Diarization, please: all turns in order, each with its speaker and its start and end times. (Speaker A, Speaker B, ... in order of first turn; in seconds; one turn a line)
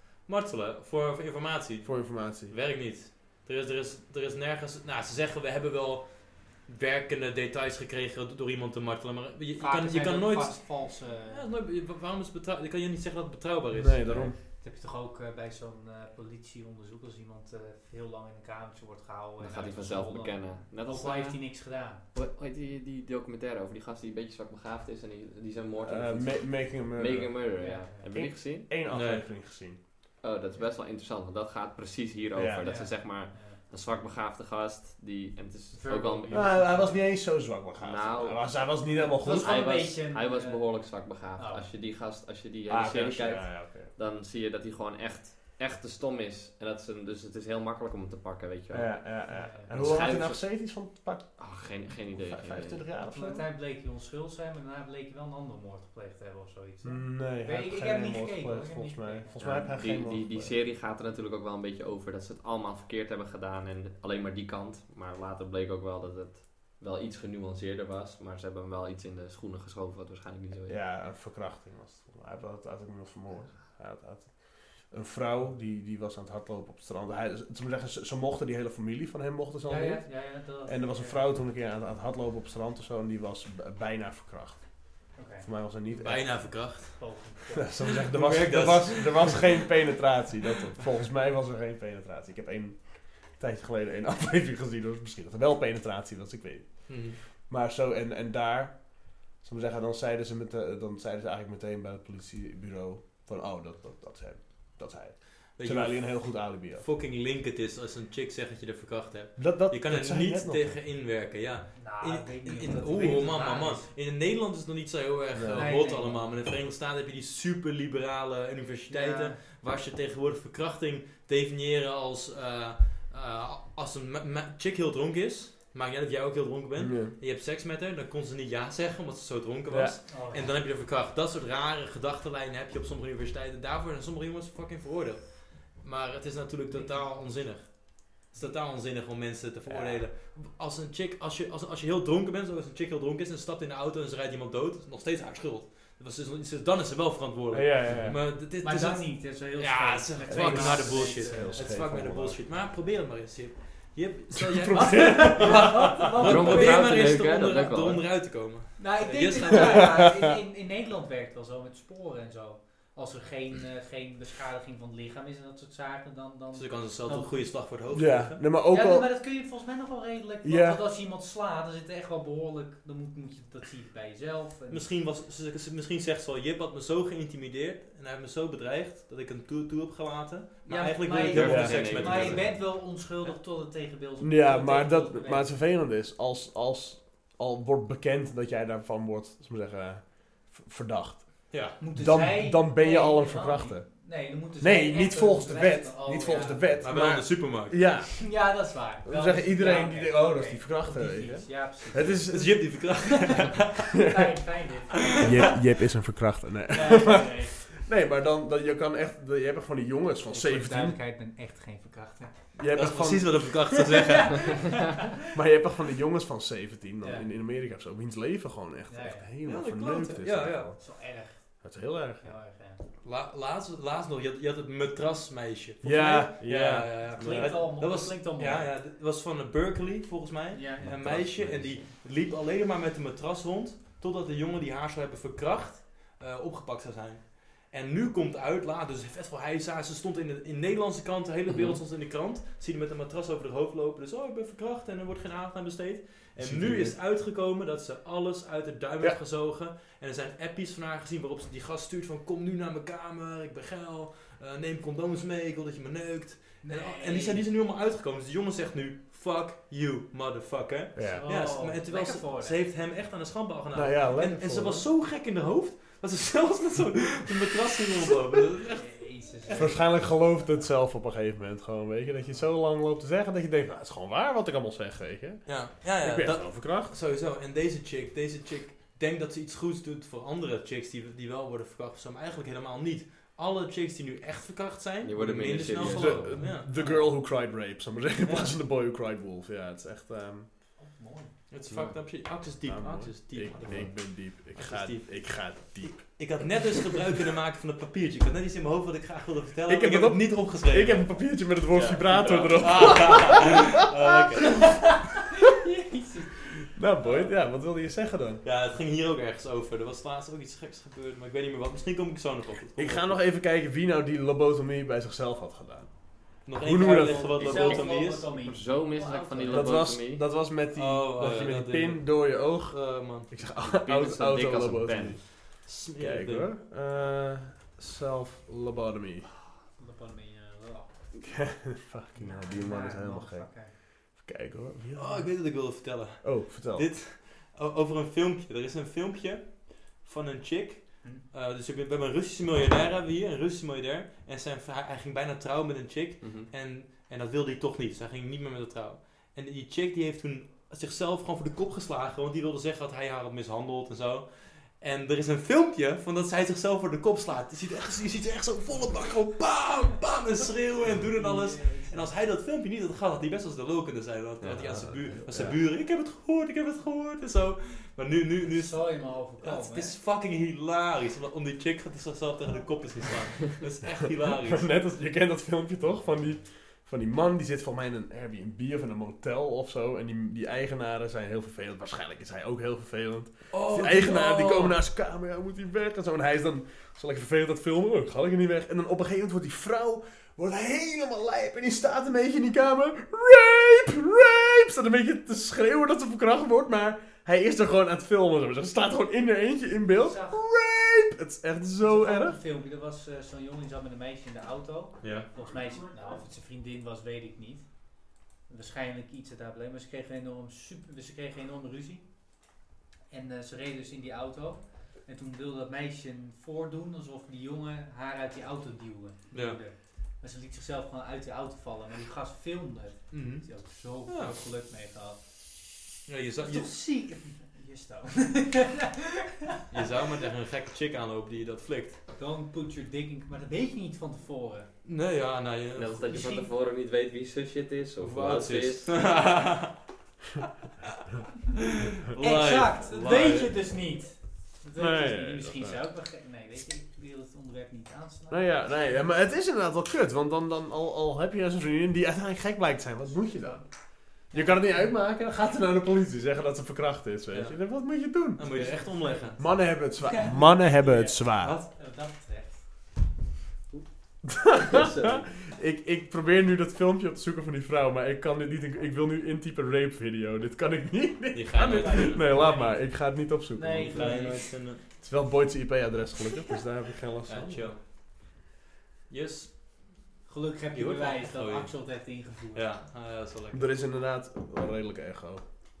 Speaker A: 0.2-14.3
Speaker B: 1.8-2.5
Speaker C: 9.6-11.5
Speaker B: 13.7-14.3
Speaker C: 14.4-22.0
Speaker D: 19.4-28.7
Speaker B: 25.8-29.8
Speaker C: 27.6-28.1
Speaker A: 28.9-29.2
Speaker D: 30.2-36.9
Speaker B: 32.3-32.8
Speaker C: 32.6-33.6
Speaker C: 35.7-37.0
Speaker B: 36.3-39.7
Speaker D: 37.8-50.7
Speaker C: 38.9-41.7
Speaker B: 42.7-43.9
Speaker B: 48.7-53.5
Speaker C: 49.3-49.7
Speaker D: 51.4-52.8
Speaker C: 53.0-59.4
Speaker B: 56.8-60.6
Speaker D: 59.4-70.8
Speaker B: 70.7-86.6
Speaker C: 75.3-75.5
Speaker C: 79.7-81.3
Speaker C: 85.1-85.5
Speaker A: 85.9-87.3
Speaker C: 87.0-87.8
Speaker B: 87.6-106.8
Speaker A: 87.8-89.7
Speaker A: 96.9-97.2
Speaker A: 105.5-160.0
Speaker B: 109.4-110.8
Speaker C: 111.7-113.9
Speaker B: 115.3-115.7
Speaker C: 115.5-116.3
Speaker C: 118.9-119.4
Speaker B: 126.8-127.1
Speaker B: 129.7-130.0
Speaker C: 130.1-130.6
Speaker C: 136.7-137.2
Speaker B: 139.7-140.0
Speaker B: 147.5-148.3
Speaker C: 148.6-151.8
Speaker B: 150.3-152.4
Speaker B: 154.3-156.2
Speaker C: 155.4-157.0
Speaker D: 156.2-158.1
Speaker C: 158.8-167.4
Speaker B: 159.8-160.2
Speaker A: 166.5-168.4
Speaker B: 167.9-169.1
Speaker C: 168.7-174.9
Speaker B: 170.4-170.8
Speaker A: 174.7-183.3
Speaker C: 180.7-185.5
Speaker D: 181.2-182.5
Speaker B: 181.3-181.8
Speaker B: 184.2-198.3
Speaker A: 191.5-191.8
Speaker C: 191.8-196.7
Speaker A: 196.8-197.9
Speaker C: 198.2-205.3
Speaker B: 199.0-202.7
Speaker A: 202.2-203.8
Speaker B: 204.0-204.3
Speaker B: 205.2-211.0
Speaker C: 206.7-207.6
Speaker C: 210.3-212.6
Speaker B: 212.5-213.6
Speaker A: 212.7-214.8
Speaker C: 214.2-215.1
Speaker B: 215.3-221.0
Speaker C: 217.0-217.3
Speaker C: 218.9-219.3
Speaker A: 219.4-220.7
Speaker C: 220.8-222.8
Speaker B: 221.6-222.2
Speaker A: 223.0-269.8
Speaker B: 225.8-227.7
Speaker C: 227.2-228.7
Speaker C: 230.5-230.9
Speaker D: 230.8-231.9
Speaker D: 241.5-241.8
Speaker B: 246.3-247.0
Speaker C: 256.6-257.4
Speaker B: 260.9-261.3
Speaker C: 261.0-262.6
Speaker B: 263.7-264.9
Speaker C: 268.8-269.9
Speaker B: 269.6-276.9
Speaker A: 275.5-286.7
Speaker D: 285.0-286.4
Speaker B: 285.7-290.5
Speaker C: 286.7-287.1
Speaker C: 290.8-291.3
Speaker A: 291.5-295.5
Speaker D: 291.6-292.0
Speaker B: 292.6-296.6
Speaker A: 296.2-301.1
Speaker B: 299.7-303.6
Speaker D: 301.7-303.0
Speaker A: 302.5-304.9
Speaker C: 305.6-306.7
Speaker B: 306.7-308.4
Speaker A: 308.4-313.2
Speaker B: 312.8-317.4
Speaker A: 316.4-318.3
Speaker C: 316.9-319.9
Speaker D: 317.1-320.2
Speaker B: 319.5-329.3
Speaker A: 320.7-323.3
Speaker D: 323.6-325.2
Speaker A: 325.5-326.5
Speaker C: 329.8-330.9
Speaker B: 331.2-336.9
Speaker C: 332.1-333.7
Speaker A: 334.9-374.7
Speaker D: 346.2-346.5
Speaker C: 361.1-362.1
Speaker D: 364.4-365.5
Speaker B: 365.3-365.5
Speaker C: 368.4-369.9
Speaker B: 374.4-402.4
Speaker A: 383.5-384.8
Speaker C: 399.9-400.4
Speaker C: 401.8-412.5
Speaker A: 405.0-405.3
Speaker C: 413.1-425.3
Speaker A: 419.3-419.6
Speaker A: 423.1-424.3
Speaker A: 426.1-426.7
Speaker C: 426.4-428.9
Speaker A: 429.7-432.0
Speaker C: 432.1-434.7
Speaker A: 434.8-436.1
Speaker D: 435.8-439.1
Speaker C: 436.1-436.5
Speaker A: 438.0-439.8
Speaker A: 441.5-443.6
Speaker C: 442.2-449.0
Speaker B: 444.8-445.8
Speaker B: 448.3-461.6
Speaker C: 454.3-454.9
Speaker A: 457.3-459.4
Speaker C: 458.5-462.7
Speaker B: 464.3-474.3
Speaker D: 464.7-465.3
Speaker A: 471.3-472.5
Speaker C: 471.6-474.5
Speaker A: 473.9-474.8
Speaker B: 475.0-477.7
Speaker A: 477.3-477.8
Speaker A: 479.1-480.1
Speaker C: 480.2-482.7
Speaker A: 480.7-483.7
Speaker B: 483.5-485.4